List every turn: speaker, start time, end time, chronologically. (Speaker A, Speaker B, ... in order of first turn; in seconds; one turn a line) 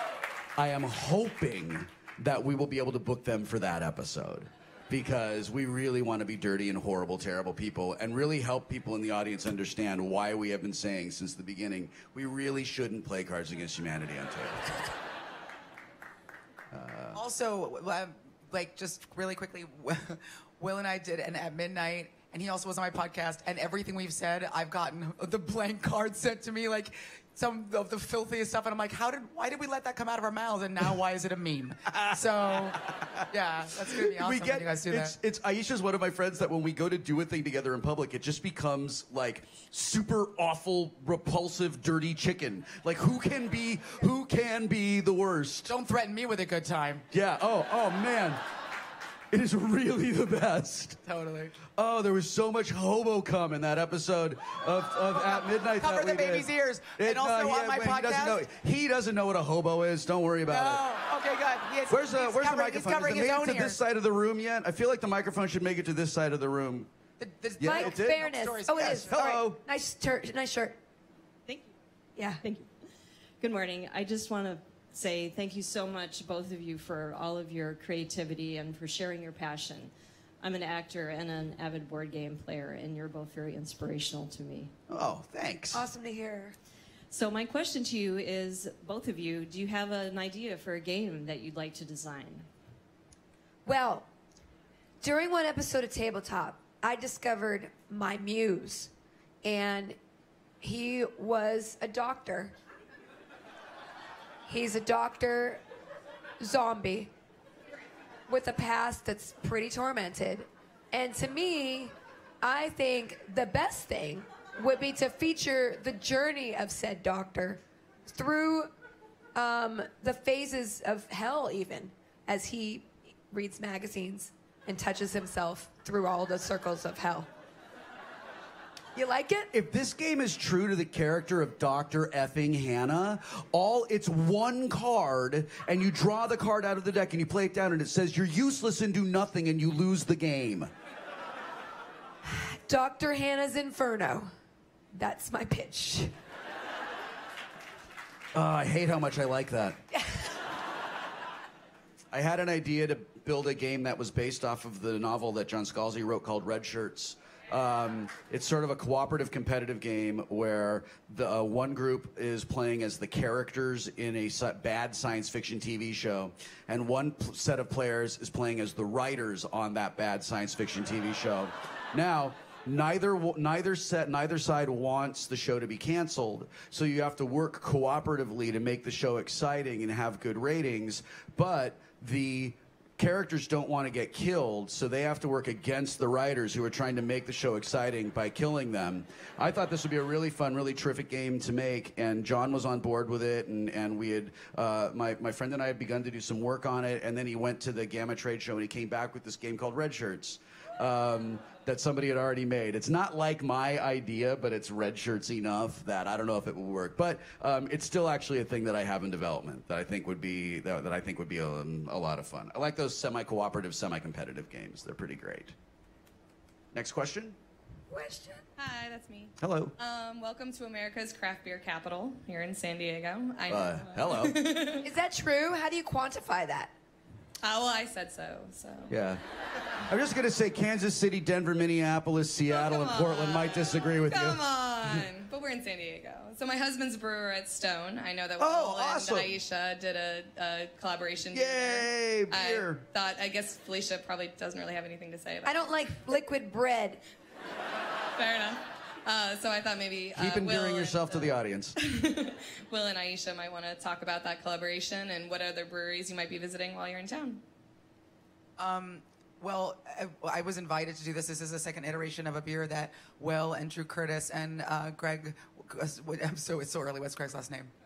Speaker A: 0.6-14.8
Speaker A: 16.7-17.2
Speaker B: 17.1-35.1
Speaker A: 31.9-33.2
Speaker A: 33.8-45.7
Speaker B: 45.7-47.1
Speaker A: 47.1-48.4
Speaker A: 49.3-51.0
Speaker B: 51.1-51.6
Speaker A: 51.7-60.8
Speaker B: 55.1-58.4
Speaker B: 60.5-63.8
Speaker A: 61.9-66.9
Speaker B: 67.2-69.2
Speaker A: 67.6-69.6
Speaker C: 67.6-70.8
Speaker C: 72.2-72.4
Speaker D: 72.4-72.7
Speaker D: 73.4-84.7
Speaker A: 84.9-85.8
Speaker C: 85.7-86.5
Speaker D: 87.1-92.5
Speaker C: 93.7-94.1
Speaker C: 95.0-98.9
Speaker C: 99.4-100.0
Speaker C: 100.6-102.5
Speaker C: 104.5-105.6
Speaker C: 106.4-107.1
Speaker C: 108.3-118.7
Speaker C: 119.3-127.3
Speaker C: 128.9-129.5
Speaker A: 129.5-140.7
Speaker C: 142.2-144.3
Speaker C: 144.9-146.1
Speaker A: 148.3-149.8
Speaker C: 149.9-150.2
Speaker A: 152.1-215.6
Speaker A: 216.7-217.4
Speaker C: 217.9-218.4
Speaker E: 218.6-224.9
Speaker A: 219.4-219.7
Speaker A: 223.5-224.4
Speaker C: 224.8-226.7
Speaker E: 227.4-228.9
Speaker A: 228.9-229.2
Speaker A: 229.9-235.0
Speaker E: 232.5-245.6
Speaker A: 238.4-239.4
Speaker A: 241.3-242.8
Speaker C: 245.4-247.0
Speaker E: 248.2-257.4
Speaker A: 250.1-251.8
Speaker B: 258.6-267.7